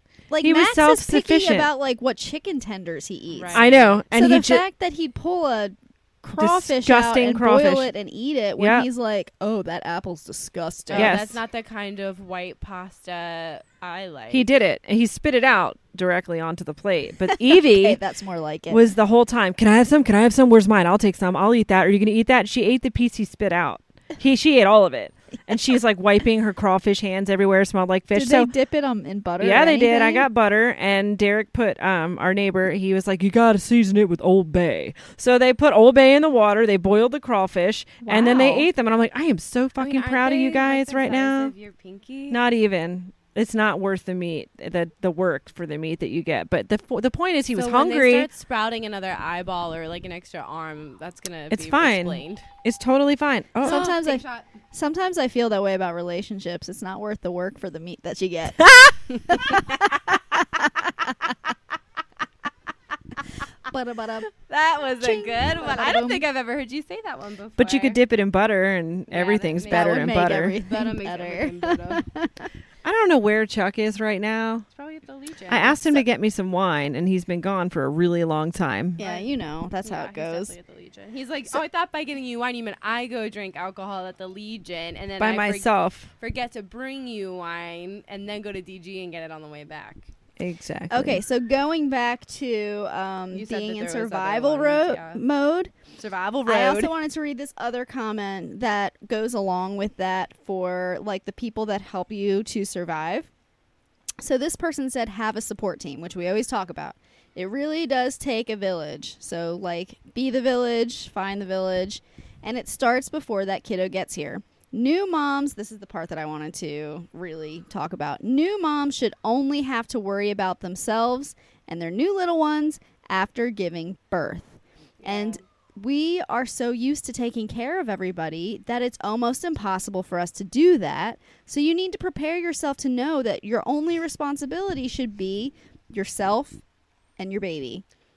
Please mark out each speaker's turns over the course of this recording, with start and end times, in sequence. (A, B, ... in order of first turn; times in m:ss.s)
0:00.3-0:11.2 A
0:00.4-0:01.7 B
0:03.3-0:04.0 C
0:03.5-0:04.6 B
0:06.4-0:07.9 B
0:08.6-0:08.9 B
0:10.9-0:14.5 C
0:10.9-0:11.4 B
0:14.3-0:18.0 B
0:17.4-0:18.9 A
0:18.7-0:28.5 B
0:28.1-0:30.3 A
0:29.4-0:41.5 B
0:38.0-0:38.7 A
0:39.8-0:42.4 C
0:42.3-0:48.3 B
0:47.5-0:52.4 C
0:51.5-0:53.9 B
0:53.6-0:54.5 C
0:53.6-1:01.1 A
1:03.6-1:04.3 A
1:04.4-1:08.0 C
1:05.0-1:06.2 A
1:07.6-1:10.6 B
1:09.1-1:12.0 C
1:09.7-1:12.5 A
1:12.8-1:14.6 B
1:14.7-1:16.0 C
1:15.5-1:19.0 B
1:19.0-1:20.5 A
1:19.0-1:30.1 C
1:25.2-1:26.1 B
1:30.4-1:31.2 B
1:30.9-1:35.7 A
1:33.3-1:35.2 C
1:36.0-1:36.9 C
1:36.4-1:43.3 A
1:44.2-2:16.6 A
2:05.0-2:05.4 C
2:17.2-2:17.8 A